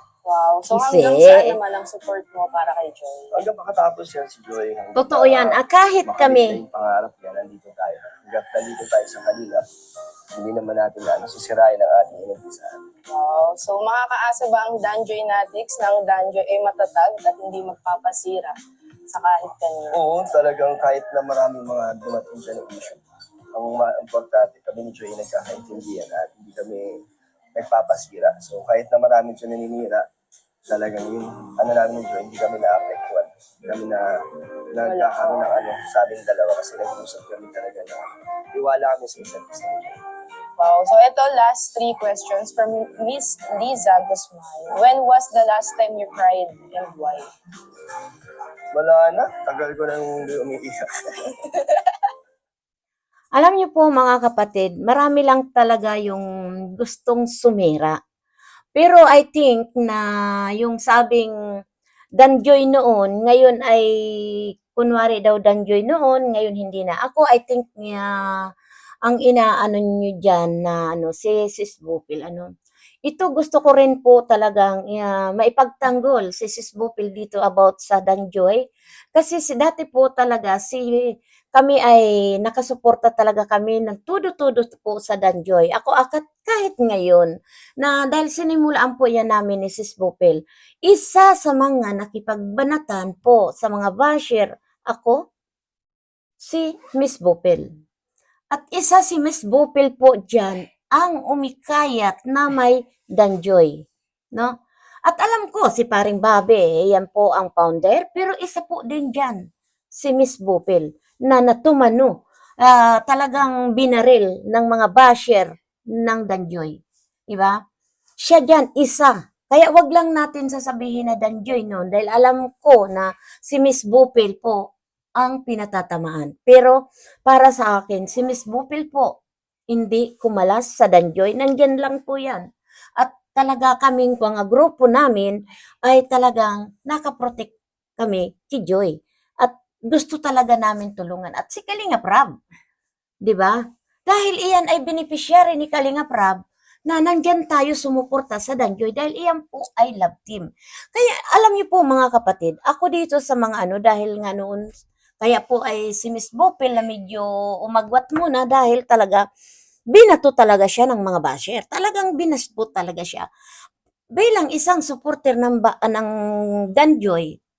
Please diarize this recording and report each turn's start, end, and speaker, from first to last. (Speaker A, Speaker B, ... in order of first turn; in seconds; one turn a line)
Speaker A: 0.2-3.4
Speaker B: 0.7-1.6
Speaker C: 3.3-9.6
Speaker B: 5.0-6.6
Speaker C: 10.3-12.8
Speaker A: 13.1-18.6
Speaker A: 19.1-20.0
Speaker C: 19.9-23.0
Speaker C: 23.5-27.0
Speaker C: 27.5-30.1
Speaker C: 30.6-34.1
Speaker C: 34.7-40.0
Speaker A: 34.8-35.5
Speaker A: 40.6-47.3
Speaker C: 48.7-50.9
Speaker B: 53.3-58.0
Speaker B: 58.7-61.3
Speaker B: 62.1-68.5
Speaker B: 69.0-72.5
Speaker B: 73.0-78.6
Speaker B: 79.1-95.2
Speaker B: 96.4-97.7
Speaker B: 98.5-104.5
Speaker B: 105.0-117.6
Speaker B: 118.2-129.2
Speaker B: 129.7-142.3
Speaker B: 143.2-154.7
Speaker B: 155.2-159.2
Speaker B: 159.9-163.3
Speaker B: 164.1-166.1
Speaker B: 166.7-167.4